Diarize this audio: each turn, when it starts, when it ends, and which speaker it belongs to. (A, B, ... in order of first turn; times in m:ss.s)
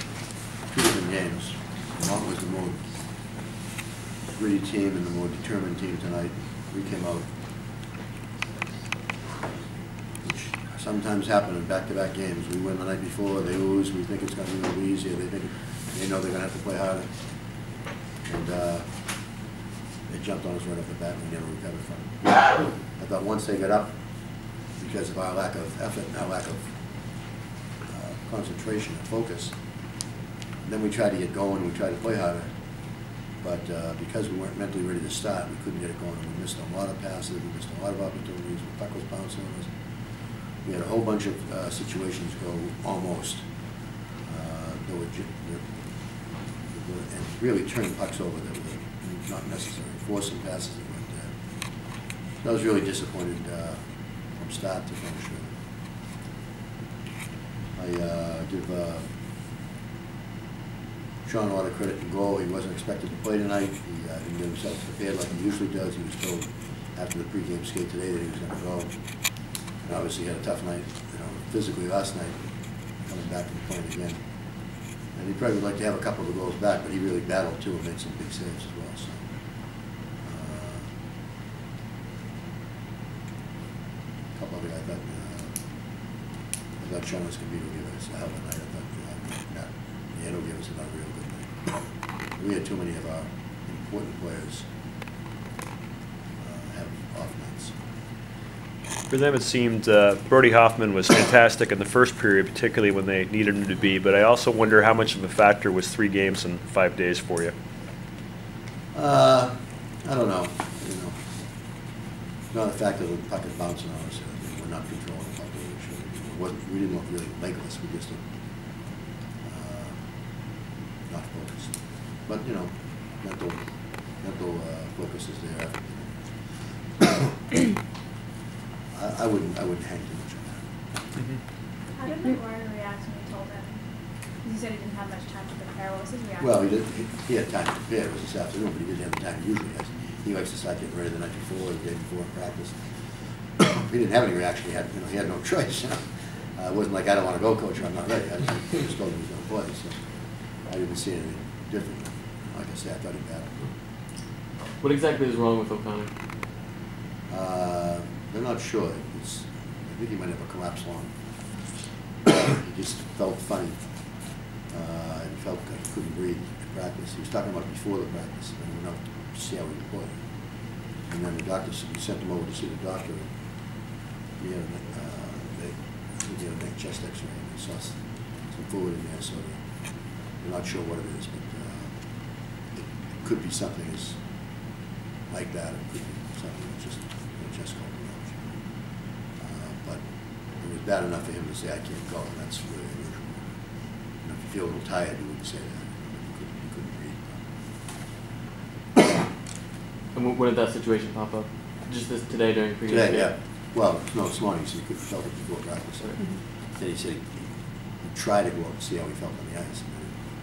0:00.7-0:02.8 A
0:04.3-0:07.3 A
0:10.2-0:17.2 A
0:18.2-0:18.9 A
0:20.1-0:24.0 A
0:24.7-0:26.7 A
0:27.9-0:29.6 A
0:30.6-0:32.5 A
0:33.4-0:39.7 A
0:40.6-0:43.5 A
0:44.2-0:45.7 A
0:46.7-0:51.3 A
0:52.4-0:55.5 A
0:57.8-0:59.1 A
1:01.2-1:09.0 A
1:09.8-1:12.5 A
1:13.0-1:14.2 A
1:15.1-1:19.2 A
1:20.2-1:20.9 A
1:24.3-1:25.5 A
1:26.8-1:31.5 A
1:32.4-1:34.6 A
1:36.4-1:37.7 A
1:39.1-1:47.5 B
1:48.9-1:51.2 A
1:52.5-1:58.2 A
1:59.4-2:00.0 A
2:01.1-2:01.7 A
2:02.2-2:03.6 A
2:04.1-2:06.1 A
2:07.0-2:07.2 A
2:08.9-2:10.6 A
2:12.7-2:13.6 C
2:14.4-2:16.4 C
2:16.4-2:22.9 A
2:23.6-2:30.0 A
2:30.6-2:33.6 A
2:34.8-2:36.1 D
2:37.3-2:41.1 A
2:42.2-2:43.8 A
2:44.7-2:50.2 A
2:51.0-2:53.3 A
2:54.4-2:59.6 A
3:00.4-3:01.9 A
3:02.7-3:04.2 A
3:05.3-3:08.5 A
3:09.4-3:10.0 A
3:10.6-3:13.5 A
3:14.2-3:17.4 A
3:20.1-3:23.3 D
3:22.9-3:27.5 A
3:28.0-3:30.2 A